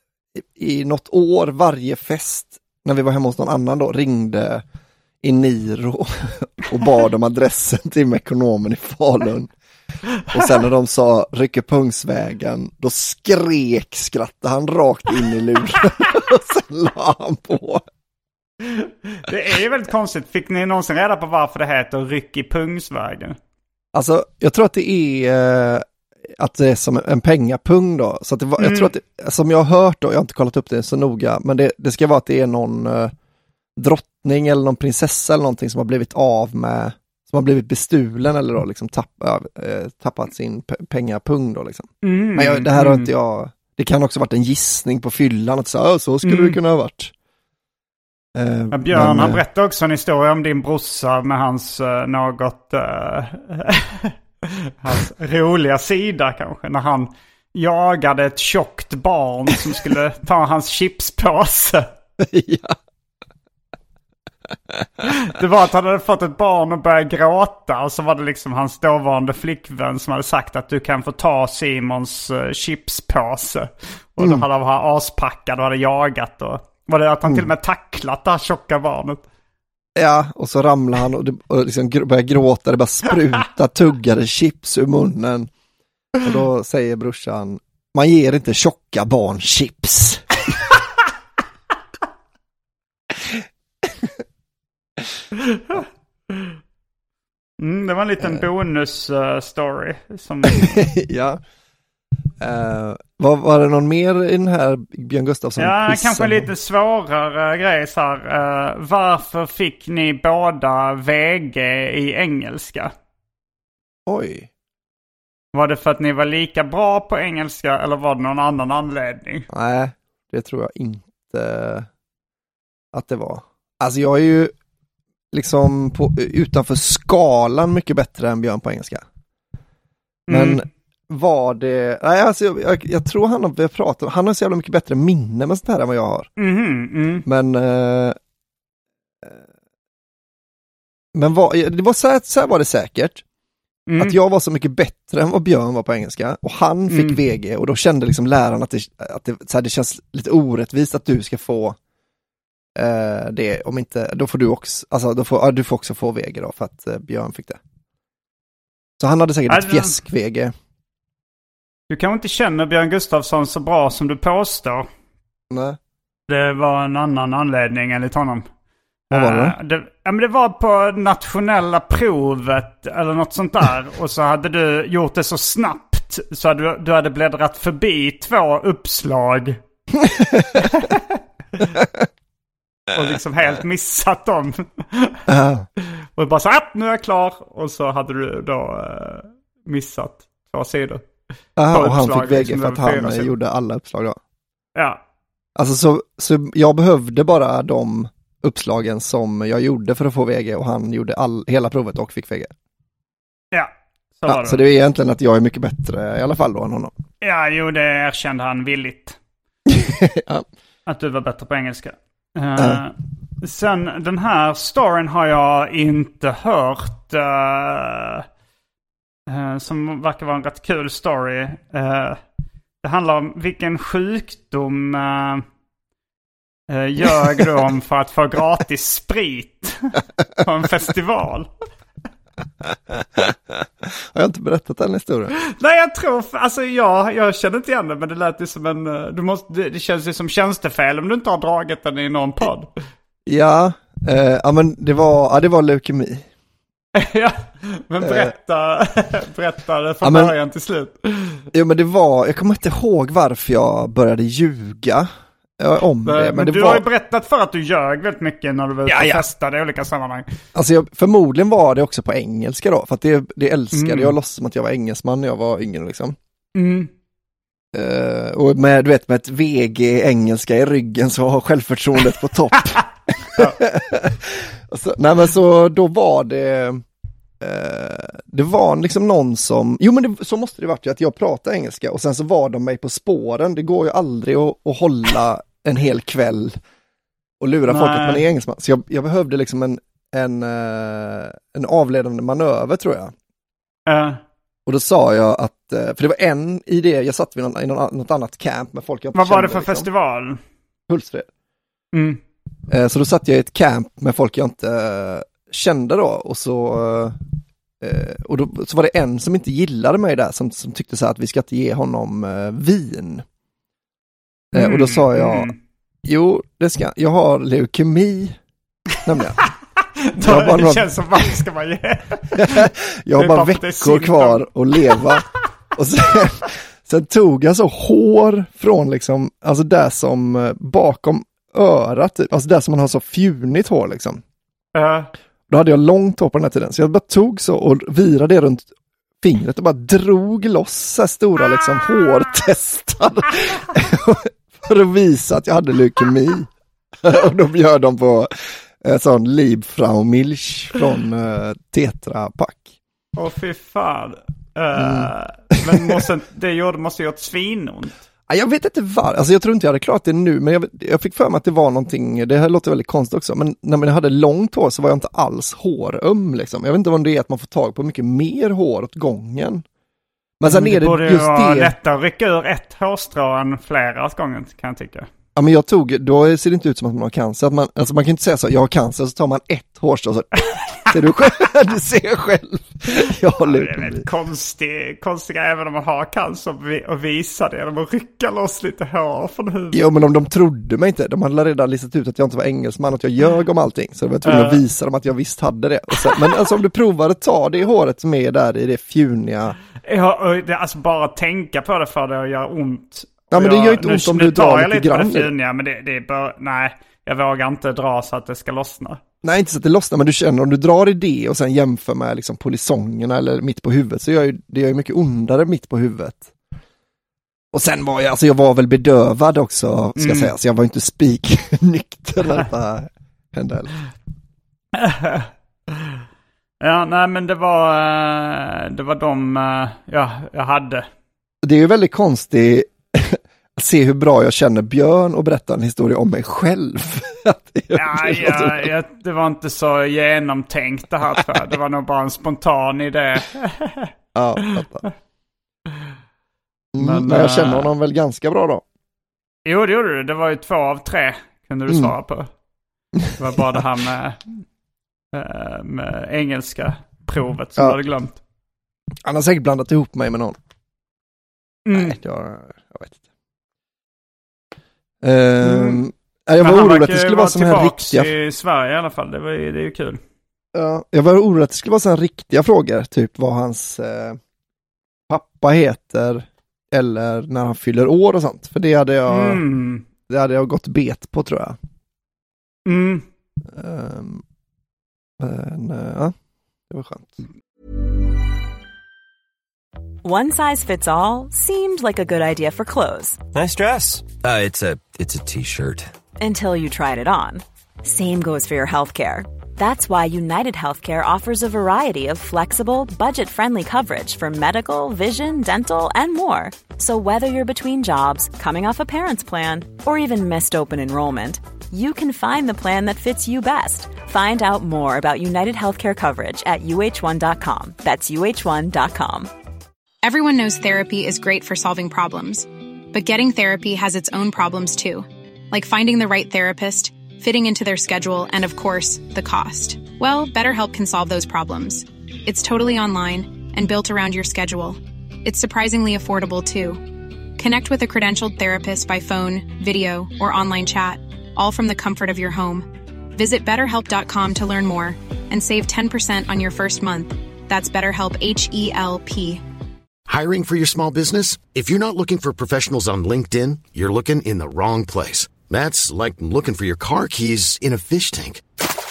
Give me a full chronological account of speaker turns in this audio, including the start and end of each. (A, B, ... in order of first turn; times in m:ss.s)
0:00.4-0:04.6 A
0:05.2-0:09.5 A
0:10.3-0:17.8 A
0:18.6-0:23.4 B
0:23.9-0:25.8 A
0:26.4-0:33.1 A
0:28.6-0:28.9 B
0:33.8-0:47.1 A
0:42.0-0:43.1 B
0:46.2-0:46.6 B
0:48.4-0:49.4 A
0:48.7-0:54.1 B
0:54.6-1:01.9 B
1:02.2-1:02.8 A
1:04.7-1:05.3 A
1:05.2-1:19.2 B
1:14.2-1:14.4 A
1:20.0-1:25.5 A
1:26.2-1:30.4 A
1:33.2-1:34.1 A
1:37.6-1:40.8 B
1:40.4-1:41.4 A
1:42.4-1:46.5 A
1:45.6-1:52.9 B
1:54.1-1:54.5 A
1:55.5-1:59.5 B
1:59.5-2:01.9 A
2:02.9-2:04.5 A
2:05.3-2:09.0 A
2:10.3-2:10.6 B
2:10.3-2:16.3 A
2:16.4-2:17.2 B
2:17.3-2:18.2 A
2:21.2-2:23.2 A
2:23.9-2:24.2 B
2:24.0-2:31.8 A
2:26.9-2:27.2 B
2:32.8-2:37.6 A
2:39.0-2:40.5 A
2:39.5-2:40.0 B
2:41.9-2:44.9 B
2:45.5-2:45.8 A
2:46.3-2:48.5 B
2:49.1-2:49.6 A
2:49.1-2:59.6 B
3:00.0-3:00.7 A
3:00.6-3:01.1 B
3:01.7-3:02.1 A
3:02.9-3:05.2 B
3:05.3-3:05.7 A
3:06.2-3:11.0 B
3:11.6-3:14.2 A
3:11.7-3:13.4 B
3:14.8-3:15.0 B
3:15.6-3:22.5 A
3:23.5-3:24.6 B
3:24.3-3:26.9 A
3:27.2-3:29.2 B
3:29.7-3:30.4 A
3:30.9-3:38.2 B
3:32.6-3:32.8 A
3:39.3-3:42.2 B
3:42.8-3:45.4 B
3:46.7-3:51.5 B
3:52.9-3:55.3 A
3:55.5-4:02.7 B
4:03.3-4:06.3 A
4:07.0-4:11.4 B
4:08.0-4:08.3 A
4:10.0-4:10.3 A
4:11.5-4:16.8 A
4:16.0-4:20.3 B
4:18.9-4:19.3 A
4:20.5-4:26.2 A
4:23.7-4:24.2 B
4:26.6-4:26.9 B
4:27.7-4:36.8 A
4:33.3-4:33.6 B
4:37.4-4:46.6 A
4:47.4-4:53.1 A
4:47.7-4:48.2 B
4:53.9-4:54.2 B
4:54.7-4:59.9 A
4:59.1-5:00.4 B
5:00.9-5:01.3 A
5:01.9-5:02.2 B
5:02.7-5:07.2 A
5:07.8-5:13.2 A
5:14.5-5:15.5 A
5:14.6-5:15.6 B
5:16.0-5:18.4 A
5:19.0-5:19.4 A
5:20.0-5:25.0 B
5:20.2-5:21.0 A
5:22.3-5:34.2 A
5:34.8-5:35.1 B
5:35.5-5:38.7 A
5:39.2-5:46.5 A
5:47.0-5:52.8 A
5:53.2-5:58.0 B
5:54.8-5:56.0 A
5:58.3-6:09.6 A
6:10.4-6:11.8 A
6:10.5-6:15.1 B
6:15.4-6:20.3 A
6:20.6-6:21.3 B
6:20.9-6:24.0 A
6:23.4-6:29.8 B
6:29.7-6:39.6 A
6:34.2-6:34.6 B
6:36.0-6:36.3 B
6:39.8-6:49.0 B
6:43.3-6:45.3 A
6:49.2-6:56.3 A
6:57.5-7:03.8 A
7:00.0-7:00.3 B
7:04.8-7:05.3 B
7:06.6-7:10.8 B
7:11.4-7:18.7 A
7:17.7-7:23.9 B
7:24.2-7:24.9 A
7:26.7-7:28.6 A
7:26.8-7:27.7 B
7:29.5-7:32.3 B
7:33.0-7:33.6 A
7:33.2-7:34.4 B
7:35.1-7:38.2 B
7:39.0-7:40.4 A
7:41.7-7:42.0 B
7:41.7-7:43.0 A
7:45.0-7:48.1 A
7:45.4-7:45.8 B
7:46.4-7:50.0 B
7:50.5-7:54.2 A
7:55.1-7:59.4 A
7:59.1-7:59.8 B
8:00.1-8:01.6 A
8:02.7-8:03.1 B
8:03.5-8:04.2 A
8:05.2-8:06.1 A
8:06.7-8:07.2 A
8:10.0-8:13.2 C
8:13.3-8:15.9 D
8:16.2-8:39.3 C
8:40.0-8:56.8 E
8:57.4-9:09.4 E
9:10.1-9:18.4 F